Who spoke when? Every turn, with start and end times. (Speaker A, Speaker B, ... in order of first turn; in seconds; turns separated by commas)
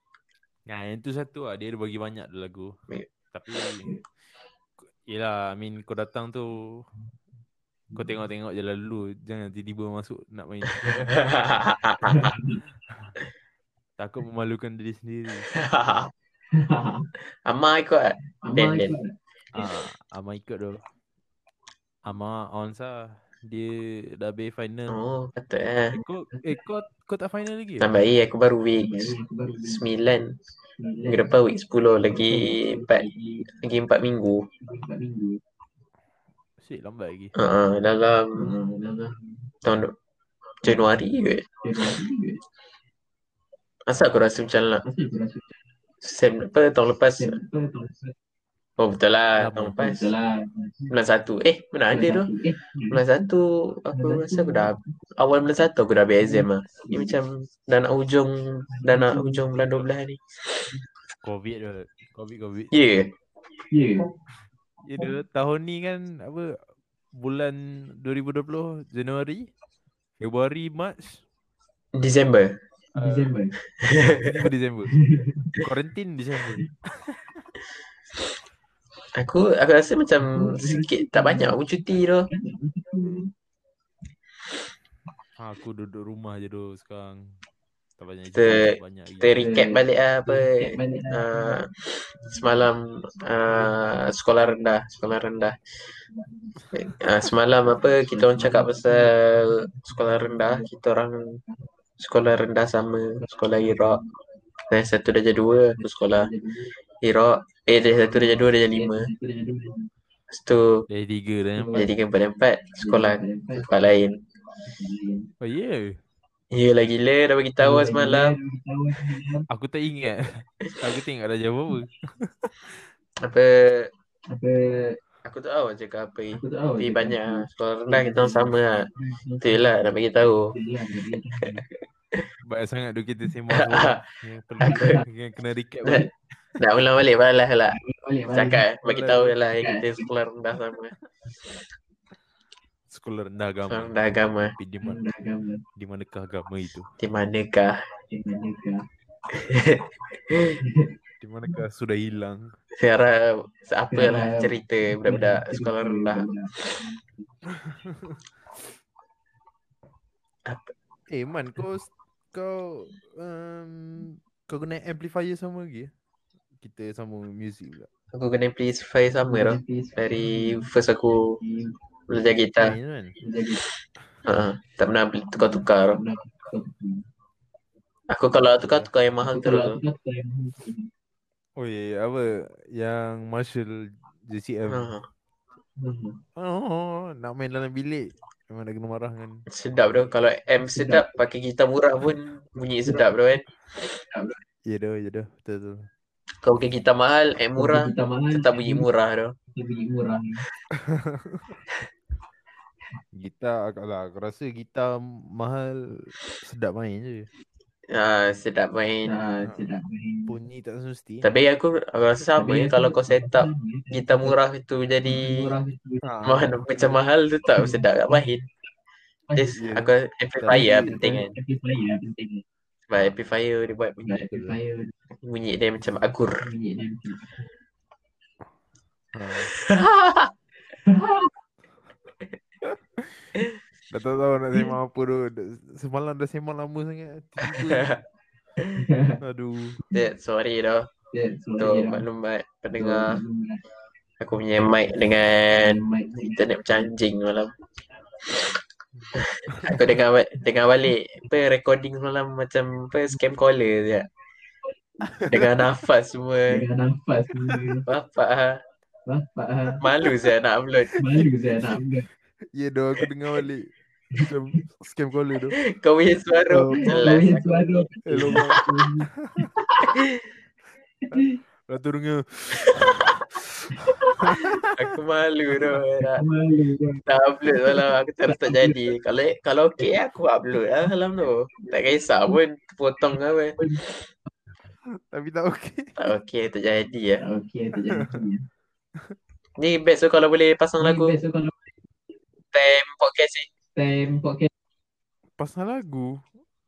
Speaker A: 0.7-2.7, Speaker A: 3.3-3.9, Speaker A: 5.0-6.8, Speaker A: 7.9-11.2, Speaker B: 11.0-12.3, Speaker C: 12.0-12.6, Speaker A: 14.0-15.5, Speaker B: 15.5-16.1, Speaker C: 16.5-17.1, Speaker B: 17.4-18.9, Speaker C: 18.4-19.1, Speaker A: 19.5-20.8, Speaker A: 22.1-25.0, Speaker B: 24.9-26.0, Speaker A: 25.9-27.9, Speaker C: 26.3-26.6, Speaker B: 27.8-29.1, Speaker C: 28.8-29.9, Speaker B: 29.6-30.4, Speaker C: 30.8-31.3, Speaker B: 31.1-34.5, Speaker C: 32.1-33.5, Speaker C: 34.6-35.4, Speaker A: 36.6-37.3, Speaker B: 37.4-38.5, Speaker C: 38.4-39.5, Speaker B: 39.6-39.9, Speaker B: 40.6-41.4, Speaker C: 40.6-40.9, Speaker C: 41.6-42.4, Speaker B: 43.9-44.8, Speaker C: 44.8-45.5, Speaker B: 46.0-47.4, Speaker C: 47.2-48.1, Speaker B: 48.8-50.1, Speaker A: 49.4-49.8, Speaker C: 49.7-50.9, Speaker B: 50.9-52.3, Speaker C: 51.9-53.0, Speaker B: 52.9-60.2, Speaker C: 53.9-54.9, Speaker C: 56.2-57.2, Speaker C: 58.7-59.5, Speaker A: 61.2-62.7, Speaker B: 62.7-63.1, Speaker C: 63.7-64.1, Speaker A: 64.8-66.6, Speaker A: 67.1-69.5, Speaker A: 70.2-71.2, Speaker B: 71.9-72.6, Speaker A: 72.9-73.4, Speaker C: 73.0-73.5, Speaker B: 73.8-74.4, Speaker A: 74.0-75.0, Speaker C: 74.9-75.6, Speaker A: 75.6-77.2, Speaker B: 79.1-82.3, Speaker C: 80.2-81.6, Speaker C: 82.3-83.3, Speaker A: 85.4-87.2, Speaker A: 88.0-89.5, Speaker B: 88.3-91.7, Speaker C: 89.3-91.6, Speaker B: 92.2-95.6, Speaker C: 96.2-96.5, Speaker B: 96.7-101.4, Speaker C: 97.7-100.7, Speaker B: 102.0-104.0, Speaker C: 103.2-104.1, Speaker B: 104.7-106.3, Speaker C: 105.8-106.7, Speaker B: 107.0-109.1, Speaker C: 108.1-109.9, Speaker B: 110.3-110.8, Speaker A: 110.9-111.9, Speaker C: 111.6-111.9, Speaker B: 111.7-114.2, Speaker C: 112.8-113.7, Speaker C: 114.6-115.3, Speaker A: 115.4-116.0, Speaker B: 116.5-118.3, Speaker C: 117.6-119.5, Speaker A: 119.5-122.8, Speaker B: 123.2-123.9, Speaker C: 124.3-125.0, Speaker B: 125.2-128.9, Speaker C: 126.3-131.6, Speaker B: 129.4-130.5, Speaker A: 132.4-136.1, Speaker B: 133.5-134.0, Speaker C: 134.6-135.0, Speaker B: 134.6-135.0, Speaker B: 136.6-137.8, Speaker C: 137.7-138.7, Speaker B: 138.3-140.9, Speaker A: 138.8-139.3, Speaker C: 139.6-140.0, Speaker A: 142.9-144.0, Speaker B: 143.7-144.5, Speaker A: 144.5-145.0, Speaker C: 144.8-145.6, Speaker A: 145.8-146.9, Speaker B: 147.0-147.8, Speaker C: 148.1-148.8, Speaker B: 149.3-149.8, Speaker C: 150.3-150.9, Speaker A: 151.2-152.5, Speaker B: 152.8-156.3, Speaker C: 153.9-157.3, Speaker A: 157.6-158.2, Speaker B: 160.4-160.7, Speaker A: 161.1-165.9, Speaker A: 166.6-167.9, Speaker B: 168.1-171.4, Speaker C: 169.3-170.7, Speaker C: 171.4-171.8, Speaker B: 172.1-172.7, Speaker A: 172.6-173.2, Speaker C: 173.2-173.6, Speaker B: 174.2-176.0, Speaker C: 175.4-177.1, Speaker B: 178.1-179.8, Speaker A: 178.6-178.9, Speaker C: 179.2-180.9, Speaker A: 181.6-184.9, Speaker B: 184.7-185.0, Speaker C: 185.8-186.2, Speaker A: 186.3-189.4, Speaker B: 189.5-193.4, Speaker C: 190.6-191.1, Speaker C: 194.1-194.4, Speaker A: 194.7-195.9, Speaker B: 196.4-199.3, Speaker C: 197.6-198.8, Speaker C: 199.5-200.4, Speaker A: 200.8-201.6, Speaker A: 203.1-207.3, Speaker B: 207.9-209.1, Speaker C: 209.0-210.3, Speaker A: 209.4-209.7, Speaker A: 210.3-211.3, Speaker B: 211.2-215.5, Speaker C: 212.4-214.3, Speaker C: 215.0-216.1, Speaker A: 216.0-216.5, Speaker B: 216.2-218.4, Speaker C: 217.5-218.3, Speaker C: 219.3-219.6, Speaker B: 219.3-221.3, Speaker A: 219.6-221.1, Speaker C: 220.5-222.4, Speaker B: 222.9-224.2, Speaker C: 224.0-224.9, Speaker B: 225.2-226.4, Speaker C: 226.4-227.4, Speaker A: 229.1-229.5, Speaker B: 229.6-230.3, Speaker C: 230.8-231.3, Speaker A: 233.9-237.9, Speaker B: 237.4-238.0, Speaker C: 238.7-239.2, Speaker A: 239.2-239.8, Speaker B: 239.9-240.9, Speaker C: 241.1-242.0, Speaker B: 241.6-243.2, Speaker C: 242.8-243.6, Speaker B: 244.2-247.5, Speaker C: 245.5-246.4, Speaker A: 249.0-249.8, Speaker B: 249.2-254.1, Speaker C: 255.0-255.3, Speaker A: 255.1-255.4, Speaker B: 255.3-256.6, Speaker C: 256.5-257.8, Speaker B: 257.9-258.6, Speaker C: 259.1-259.8, Speaker B: 259.8-261.0, Speaker C: 260.9-262.1, Speaker A: 262.5-265.6, Speaker B: 265.6-268.6, Speaker A: 266.5-267.1, Speaker C: 266.7-269.5, Speaker A: 268.1-268.6, Speaker A: 269.2-269.5, Speaker B: 269.9-270.2, Speaker C: 271.1-271.4, Speaker A: 271.1-274.9, Speaker B: 272.6-272.9, Speaker C: 273.8-274.4, Speaker B: 274.7-276.2, Speaker C: 276.1-278.8, Speaker B: 277.1-283.6, Speaker C: 281.6-282.4, Speaker C: 283.6-284.3, Speaker A: 285.0-286.0, Speaker B: 286.0-287.2, Speaker C: 287.2-288.5, Speaker A: 287.9-288.2, Speaker B: 289.6-291.2, Speaker C: 290.8-291.7, Speaker B: 292.5-293.5, Speaker C: 293.7-294.5, Speaker A: 295.4-296.2